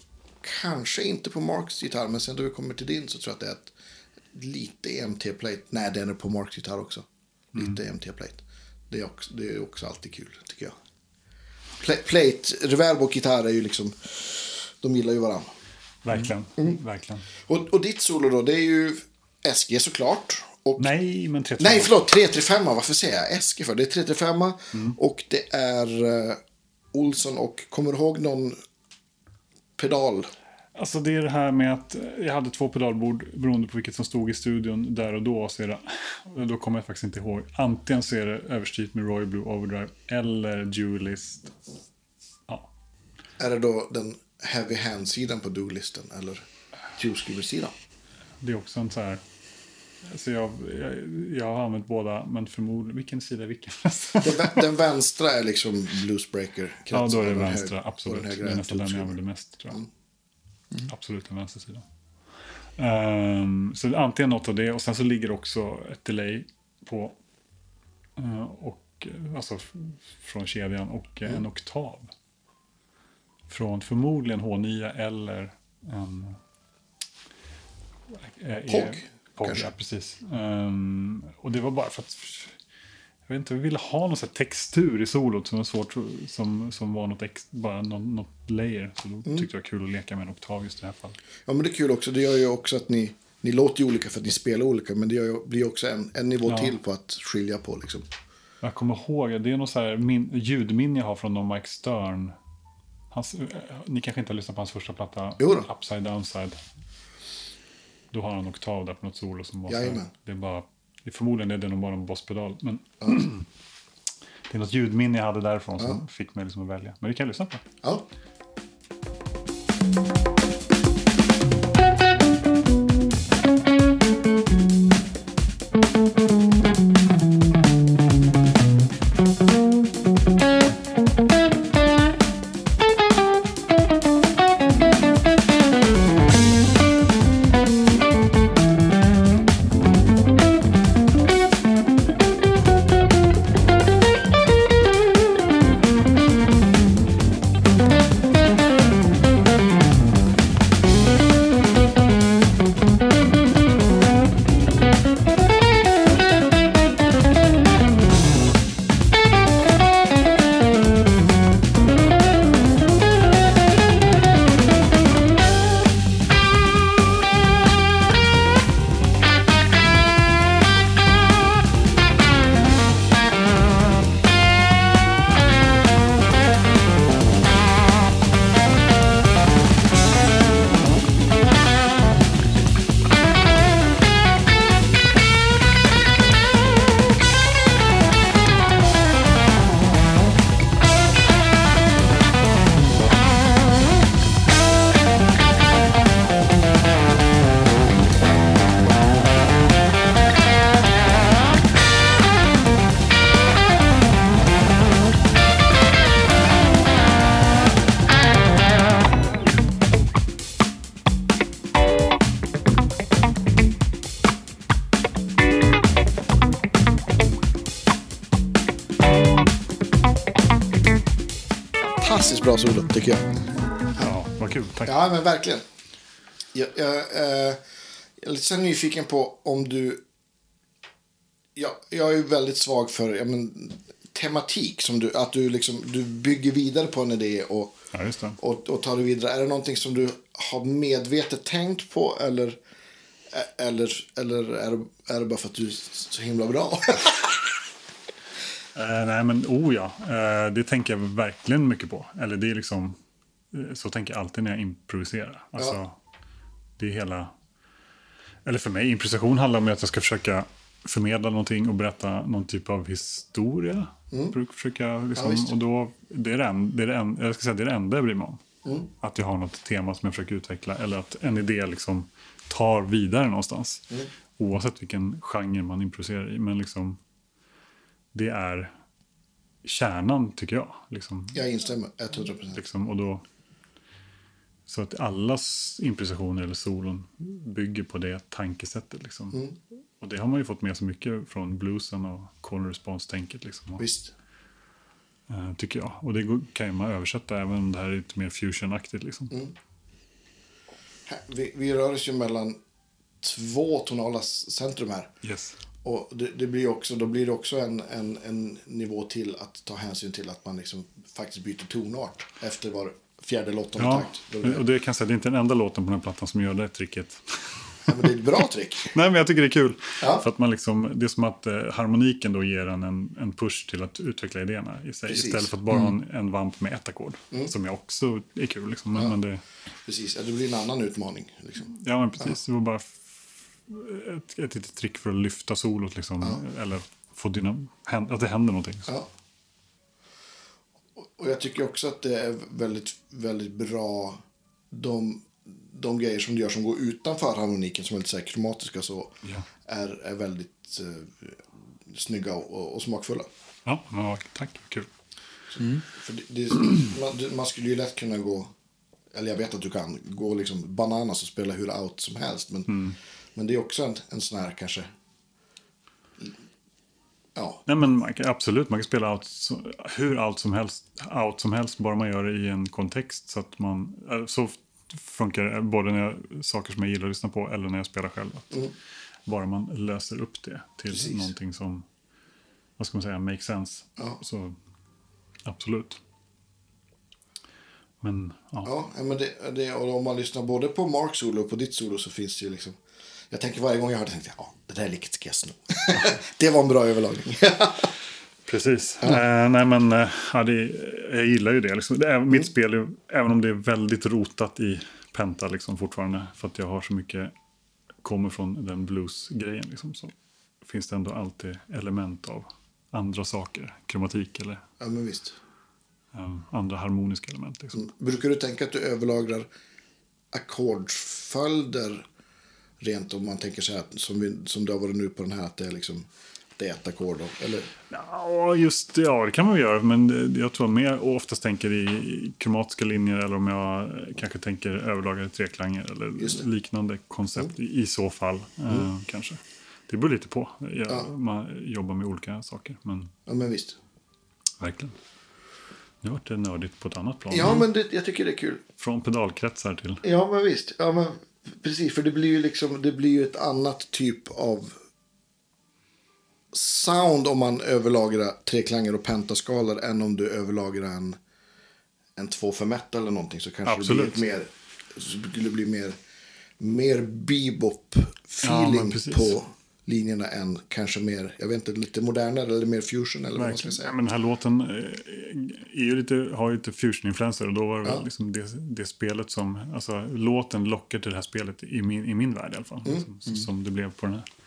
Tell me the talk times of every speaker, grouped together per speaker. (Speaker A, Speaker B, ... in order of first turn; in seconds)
Speaker A: 0.4-3.7, 4.3-10.8, 11.8-15.5, 17.4-20.9, 21.6-26.4, 26.9-28.6, 29.8-30.3, 43.4-47.8, 54.2-59.2, 78.7-79.7, 91.5-98.1, 105.4-105.7, 109.7-110.1, 113.0-113.3, 222.0-223.4, 224.9-225.7, 226.5-227.6, 228.2-230.0, 231.6-237.8, 238.4-242.6, 243.3-247.5, 264.1-264.4, 265.2-265.5, 268.6-268.9, 281.3-282.6, 293.8-294.1, 301.1-302.6, 303.2-305.1, 305.8-314.6, 317.9-318.9, 320.0-320.2, 325.1-325.5, 329.9-332.3, 341.0-353.3, 355.5-358.5, 359.1-362.8, 363.4-364.9, 367.4-367.6, 380.9-381.3, 388.6-392.8, 393.3-397.9, 414.8-415.4, 417.8-419.5, 420.3-422.1, 422.8-426.1, 426.6-427.7, 436.2-436.4, 443.3-443.8, 447.3-448.6, 450.0-454.8, 456.5-461.2, 462.2-466.0, 466.6-473.9
Speaker B: 16.0-17.3, 20.8-22.0, 30.8-41.5, 48.4-49.2, 50.0-54.6, 56.9-59.8, 60.9-61.9, 62.8-67.2, 68.2-72.1, 73.5-76.4, 78.1-82.6, 83.3-91.2, 96.5-96.8, 98.6-102.3, 103.1-106.6, 108.1-113.5, 114.5-117.6, 224.0-224.9, 237.9-238.4, 248.8-253.0, 253.5-256.0, 256.8-257.3, 258.4-268.4, 269.0-273.8, 274.4-277.0, 278.1-278.7, 279.6-281.4, 282.5-283.2, 284.7-289.4, 290.0-293.9, 295.3-299.3, 305.2-305.6, 313.8-318.1, 318.9-329.4, 331.6-338.9, 353.7-354.9, 362.7-363.0, 367.7-378.7, 379.3-381.9, 382.8-384.6, 385.5-386.0, 388.0-388.7, 398.5-407.3, 408.0-414.6, 416.1-417.9, 427.9-443.1, 444.6-445.0, 446.0-447.7, 448.8-450.0, 463.7-464.2, 468.4-469.4, 473.4-484.3